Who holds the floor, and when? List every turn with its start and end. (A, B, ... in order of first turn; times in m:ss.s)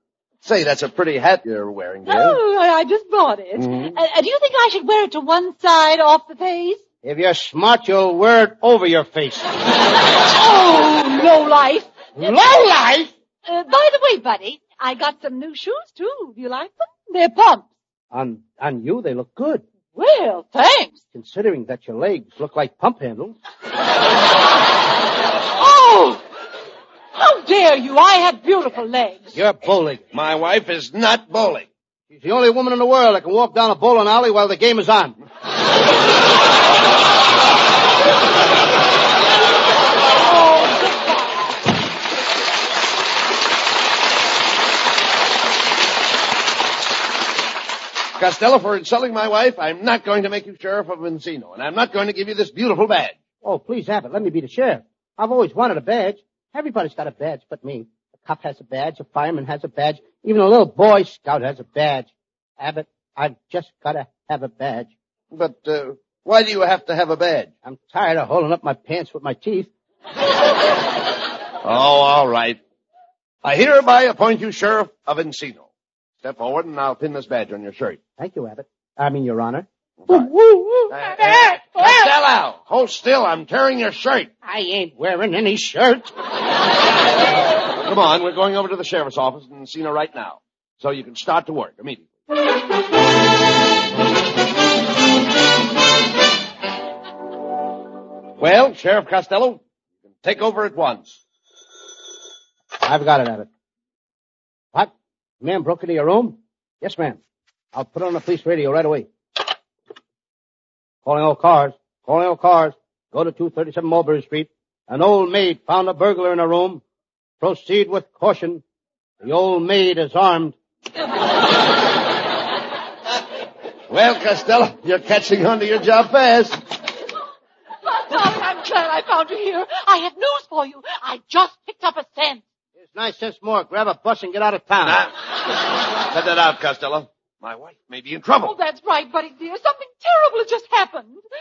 0:00.4-0:02.4 A
0:02.1-0:06.8 B
0:03.6-0:04.0 A
0:07.0-0:09.5 C
0:10.3-0:12.7 B
0:12.2-0:13.1 C
0:13.4-0:17.7 B
0:18.1-0:19.6 C
0:19.9-0:21.0 B
0:21.1-0:23.4 C
0:25.6-0:26.2 B
0:27.2-0:29.4 B
0:29.4-0:30.0 C
0:30.1-0:31.7 A
0:32.1-0:35.2 C
0:48.2-0:53.2 A
0:53.4-1:04.9 C
1:05.3-1:07.5 A
1:07.6-1:09.7 C
1:11.6-1:12.6 A
1:13.4-1:15.7 A
1:16.2-1:18.0 A
1:18.2-1:22.1 C
1:20.0-1:20.3 A
1:20.9-1:24.3 A
1:24.4-1:26.1 C
1:27.8-1:32.1 A
1:38.4-1:39.6 A
1:40.2-1:41.2 A
1:42.8-1:43.5 C
1:44.7-1:47.2 C
1:47.7-1:49.1 C
1:51.0-1:56.8 C
1:57.4-1:58.6 C
1:59.2-2:00.6 C
2:03.9-2:06.6 A
2:08.1-2:12.4 B
2:12.9-2:15.0 C
2:14.8-2:15.1 A
2:16.1-2:18.5 A
2:18.4-2:21.2 B